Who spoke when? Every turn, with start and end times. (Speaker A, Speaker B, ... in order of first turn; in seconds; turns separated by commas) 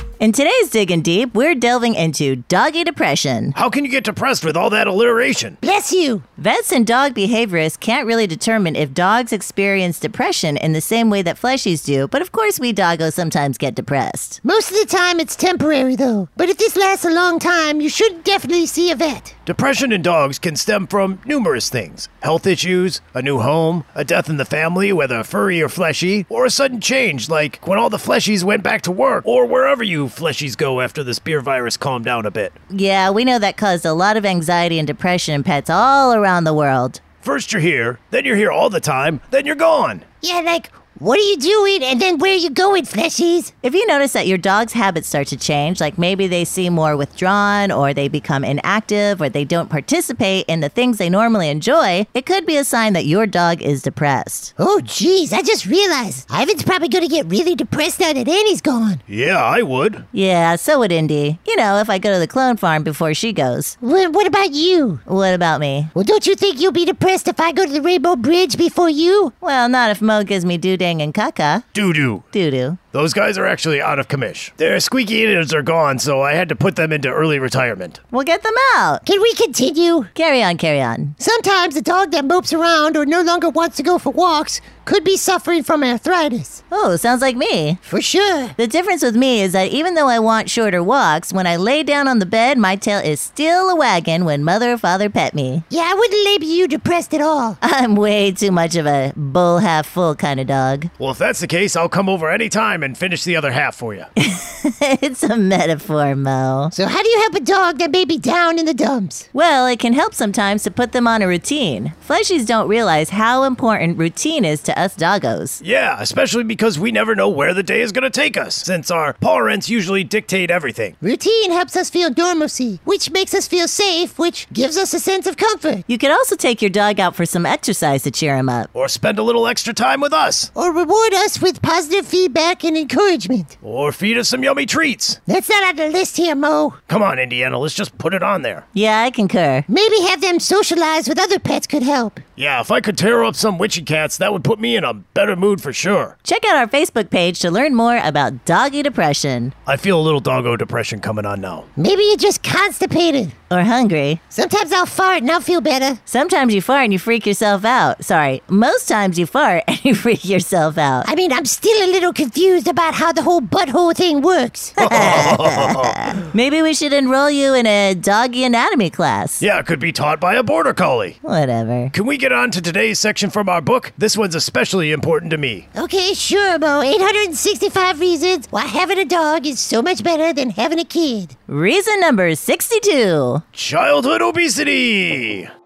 Speaker A: 0.2-3.5, Speaker B: 3.5-5.6, Speaker C: 5.6-6.2, Speaker A: 6.4-14.4, Speaker C: 14.4-19.3, Speaker B: 19.4-32.5, Speaker A: 32.7-37.0, Speaker B: 37.2-40.0, Speaker C: 40.2-43.5, Speaker A: 43.6-54.5, Speaker C: 54.6-59.0, Speaker B: 59.1-60.0, Speaker A: 60.1-63.7, Speaker C: 63.8-65.0, Speaker A: 65.0-65.9, Speaker C: 65.9-69.3, Speaker A: 69.4-71.6, Speaker B: 71.7-72.2, Speaker A: 72.3-72.8, Speaker B: 72.9-78.0, Speaker A: 78.1-79.0, Speaker C: 79.0-80.1, Speaker A: 80.1-81.1, Speaker C: 81.2-86.6, Speaker A: 86.7-87.8, Speaker C: 87.9-88.5, Speaker A: 88.6-95.6, Speaker C: 95.7-97.6, Speaker A: 97.6-100.9, Speaker B: 101.0-104.1, Speaker A: 104.2-106.7, Speaker C: 106.7-109.3, Speaker A: 109.3-115.6, Speaker B: 115.6-121.0, Speaker C: 121.0-125.8, Speaker A: 125.9-128.7, Speaker B: 128.7-130.5, Speaker C: 130.5-133.5, Speaker B: 133.6-135.2, Speaker C: 135.3-136.8, Speaker B: 136.9-138.6, Speaker A: 138.7-139.6, Speaker C: 139.7-142.2, Speaker B: 142.4-146.1, Speaker A: 146.2-149.5, Speaker B: 149.7-151.7, Speaker C: 151.8-153.3, Speaker A: 153.5-154.2, Speaker C: 154.3-156.0, Speaker A: 156.1-161.1, Speaker C: 161.0-164.8, Speaker A: 164.8-169.4, Speaker B: 164.8-166.2, Speaker B: 169.4-171.2, Speaker A: 171.2-171.9, Speaker B: 171.9-175.6, Speaker C: 175.7-181.3, Speaker A: 181.5-183.4, Speaker B: 183.5-185.5